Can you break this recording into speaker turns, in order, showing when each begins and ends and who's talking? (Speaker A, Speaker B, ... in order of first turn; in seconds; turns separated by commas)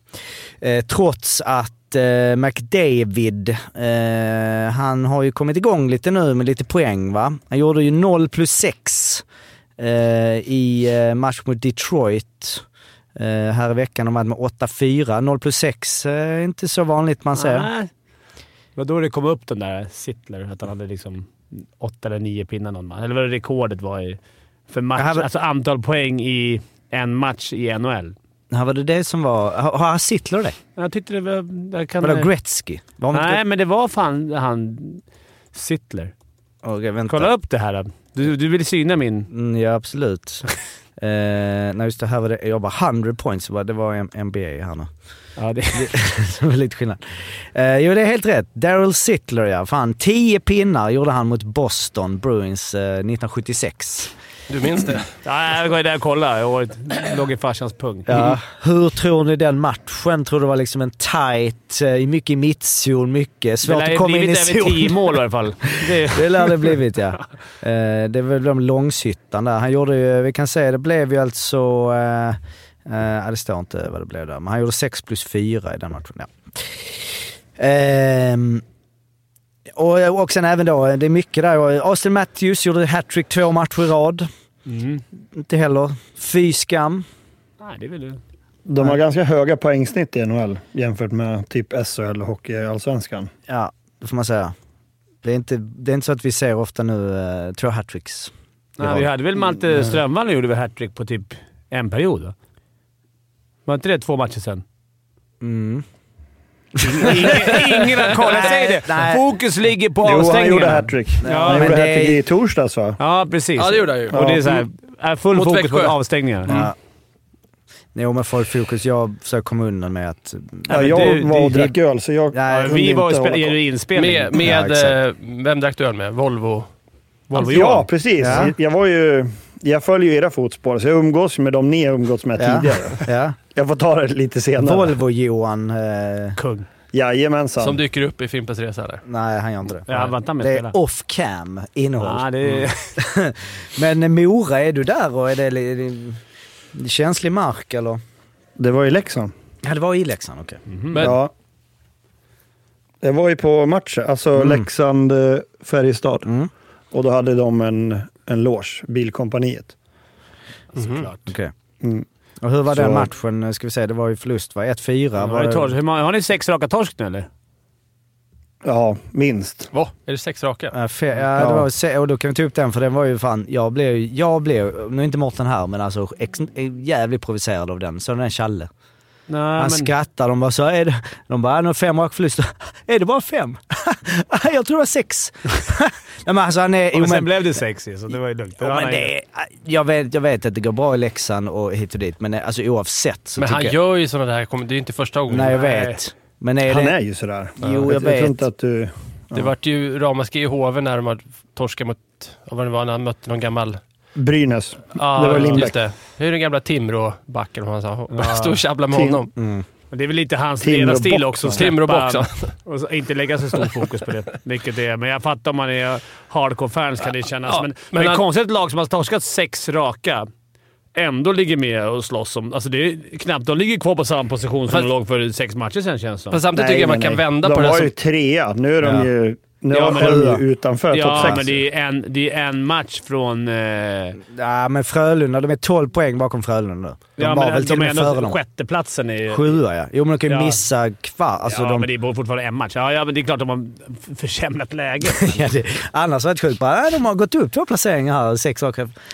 Speaker A: 0.6-9.2, Speaker A: 9.8-12.6, Speaker A: 13.2-17.7, Speaker B: 17.4-17.9, Speaker B: 18.8-28.1, Speaker A: 25.0-25.3, Speaker A: 28.5-30.6, Speaker B: 30.8-32.3, Speaker A: 32.0-33.4, Speaker B: 33.1-36.1, Speaker A: 36.6-37.3, Speaker B: 37.1-39.3, Speaker A: 39.3-40.4, Speaker A: 41.0-44.9, Speaker B: 45.4-45.9, Speaker A: 45.7-54.1, Speaker C: 54.5-55.1, Speaker B: 55.2-58.3, Speaker A: 58.1-65.2, Speaker B: 63.6-66.7, Speaker A: 65.8-78.6, Speaker A: 79.7-84.3, Speaker B: 84.7-85.0, Speaker A: 85.3-87.1, Speaker B: 87.6-88.2, Speaker D: 88.7-93.3, Speaker A: 93.5-94.5, Speaker A: 95.2-100.0, Speaker B: 98.8-102.3, Speaker B: 103.7-104.6, Speaker A: 105.4-105.8, Speaker A: 106.8-109.3, Speaker B: 106.8-111.7, Speaker D: 110.0-113.0, Speaker A: 111.2-112.2, Speaker B: 113.0-116.6, Speaker C: 113.6-114.2, Speaker C: 115.3-116.0, Speaker A: 116.5-116.8, Speaker A: 118.0-121.7, Speaker B: 120.7-121.7, Speaker D: 120.7-123.6, Speaker A: 122.3-123.0, Speaker B: 122.5-124.3, Speaker C: 124.0-126.7, Speaker A: 124.3-125.0, Speaker B: 127.3-128.4, Speaker D: 127.3-135.0, Speaker A: 128.2-128.5, Speaker A: 132.4-133.4, Speaker A: 134.6-136.4, Speaker B: 136.4-136.7, Speaker D: 136.9-137.8, Speaker C: 137.6-139.0, Speaker A: 139.1-146.2, Speaker B: 139.9-140.8, Speaker B: 142.0-143.0, Speaker A: 146.7-148.0, Speaker D: 148.6-149.3, Speaker A: 149.6-150.6, Speaker B: 150.7-151.1, Speaker C: 150.9-151.2, Speaker D: 151.0-151.3, Speaker D: 153.0-156.3, Speaker A: 154.3-154.7, Speaker D: 156.9-159.8, Speaker B: 160.8-161.2, Speaker C: 160.8-161.1, Speaker A: 161.3-161.5, Speaker A: 162.4-165.7, Speaker D: 162.7-163.1, Speaker B: 165.2-167.3, Speaker D: 168.6-169.7, Speaker C: 169.7-170.8, Speaker A: 170.7-178.7, Speaker D: 171.4-171.7, Speaker B: 179.3-179.9, Speaker A: 179.6-187.3, Speaker B: 186.9-189.1, Speaker A: 188.6-193.8, Speaker C: 193.4-195.6, Speaker A: 195.3-197.0, Speaker B: 195.5-196.0, Speaker D: 196.7-199.5, Speaker A: 197.6-198.4, Speaker C: 199.3-203.8, Speaker D: 204.2-205.8, Speaker C: 204.9-209.3, Speaker B: 208.1-208.6, Speaker D: 208.9-209.2, Speaker A: 209.4-209.7, Speaker B: 209.9-220.3, Speaker D: 210.6-211.7, Speaker C: 211.5-212.6, Speaker C: 217.5-218.2, Speaker B: 220.9-226.4, Speaker C: 226.3-227.9, Speaker D: 226.6-231.6, Speaker A: 228.8-229.1, Speaker B: 229.7-230.3, Speaker A: 229.8-230.4, Speaker B: 230.9-234.2, Speaker A: 231.1-231.4, Speaker A: 234.2-238.4, Speaker B: 237.2-239.6, Speaker A: 239.3-241.9, Speaker B: 240.3-240.6, Speaker B: 241.5-245.4, Speaker A: 245.1-248.9